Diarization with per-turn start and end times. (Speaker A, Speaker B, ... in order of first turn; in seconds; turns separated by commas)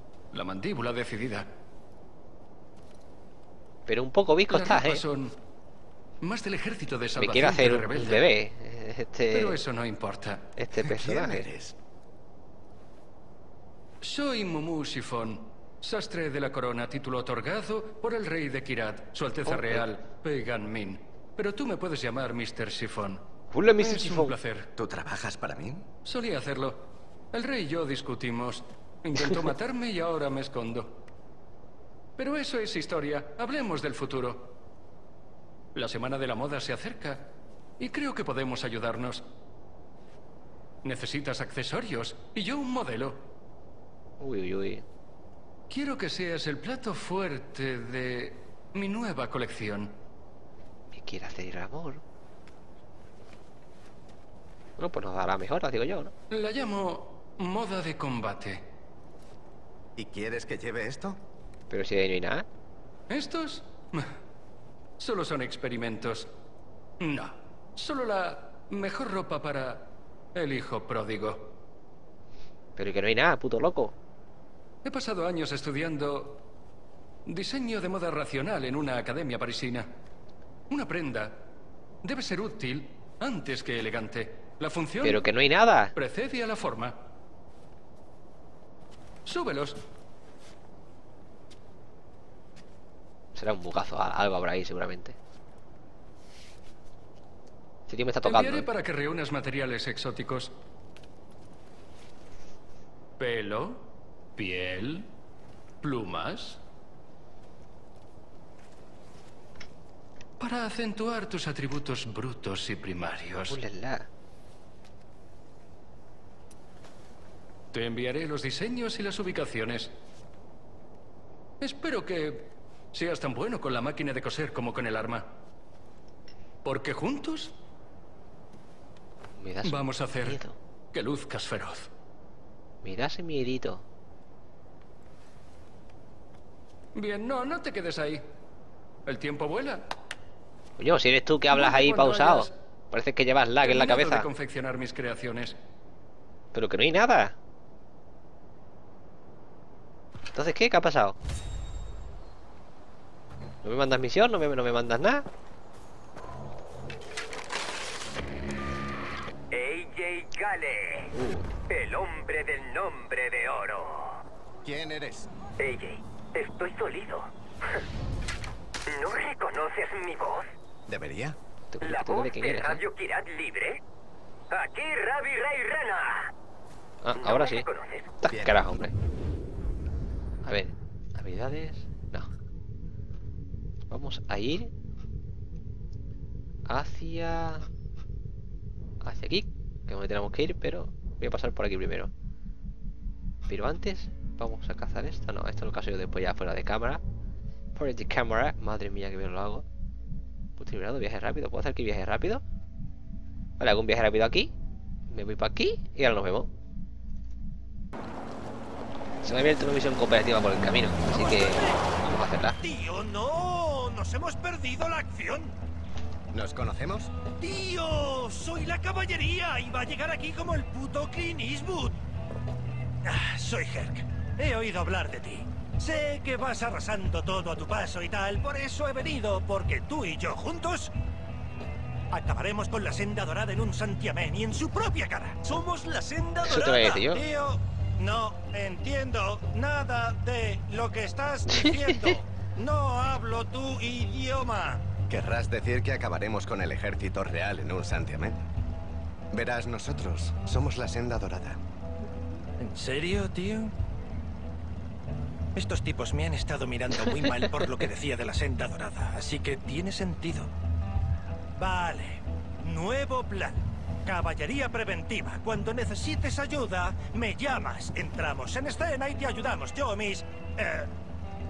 Speaker A: 0.3-1.5, Speaker B: 3.9-5.0, Speaker A: 4.5-5.3, Speaker A: 6.2-8.2, Speaker B: 7.2-9.6, Speaker A: 9.3-10.4, Speaker B: 10.6-11.4, Speaker C: 10.8-11.7, Speaker A: 14.0-23.2, Speaker B: 19.4-19.9, Speaker B: 23.5-24.3, Speaker A: 23.8-24.7, Speaker C: 24.8-25.9, Speaker A: 26.0-31.0, Speaker A: 32.2-34.5, Speaker A: 35.7-37.3, Speaker A: 37.8-39.2, Speaker A: 40.8-43.2, Speaker B: 44.2-44.8, Speaker A: 45.7-50.0, Speaker B: 50.9-52.0, Speaker B: 54.8-56.1, Speaker A: 56.3-58.6, Speaker C: 60.0-61.2, Speaker B: 61.7-62.5, Speaker A: 63.1-64.1, Speaker A: 65.0-66.3, Speaker A: 67.0-71.6, Speaker B: 72.8-74.0, Speaker A: 74.8-76.4, Speaker A: 77.2-79.9, Speaker A: 80.7-81.5, Speaker A: 82.0-85.3, Speaker B: 85.0-85.9, Speaker A: 85.9-87.0, Speaker A: 89.2-89.8, Speaker B: 93.3-95.2, Speaker B: 97.9-98.7, Speaker A: 98.2-100.5, Speaker A: 103.2-105.1, Speaker A: 105.8-106.6, Speaker A: 110.4-113.6, Speaker B: 113.5-114.1, Speaker A: 117.7-119.9, Speaker A: 121.6-125.3, Speaker A: 126.6-127.5, Speaker B: 129.4-130.6, Speaker A: 129.6-130.4, Speaker A: 130.9-131.9, Speaker B: 132.8-133.8, Speaker A: 136.9-138.2, Speaker A: 139.1-139.9, Speaker B: 140.8-144.3, Speaker A: 141.5-142.5, Speaker A: 143.6-145.6, Speaker B: 146.5-147.3, Speaker B: 150.3-151.2, Speaker B: 153.6-155.2, Speaker D: 159.5-161.1, Speaker B: 161.1-161.5, Speaker D: 161.7-164.2, Speaker C: 164.6-165.3, Speaker D: 165.6-167.8, Speaker D: 168.9-170.5, Speaker C: 170.9-171.4, Speaker B: 171.7-172.8, Speaker D: 171.8-173.8, Speaker D: 174.5-176.3, Speaker B: 177.0-177.7, Speaker D: 177.1-178.1, Speaker B: 178.2-178.9, Speaker C: 178.3-178.8, Speaker B: 180.4-182.3, Speaker B: 183.9-184.7, Speaker B: 186.7-187.6, Speaker B: 189.0-192.1, Speaker B: 193.5-197.0, Speaker B: 197.7-199.6, Speaker B: 200.6-202.4, Speaker B: 203.6-204.5, Speaker B: 205.1-206.5, Speaker B: 209.2-212.6, Speaker E: 211.1-211.8, Speaker E: 212.6-215.6, Speaker C: 216.3-217.1, Speaker E: 217.4-222.0, Speaker E: 223.0-230.9, Speaker E: 232.1-244.9, Speaker B: 236.4-237.2, Speaker B: 241.6-242.1, Speaker C: 245.1-248.4, Speaker C: 249.3-251.6, Speaker E: 252.6-253.7, Speaker E: 255.5-260.5, Speaker E: 261.6-270.9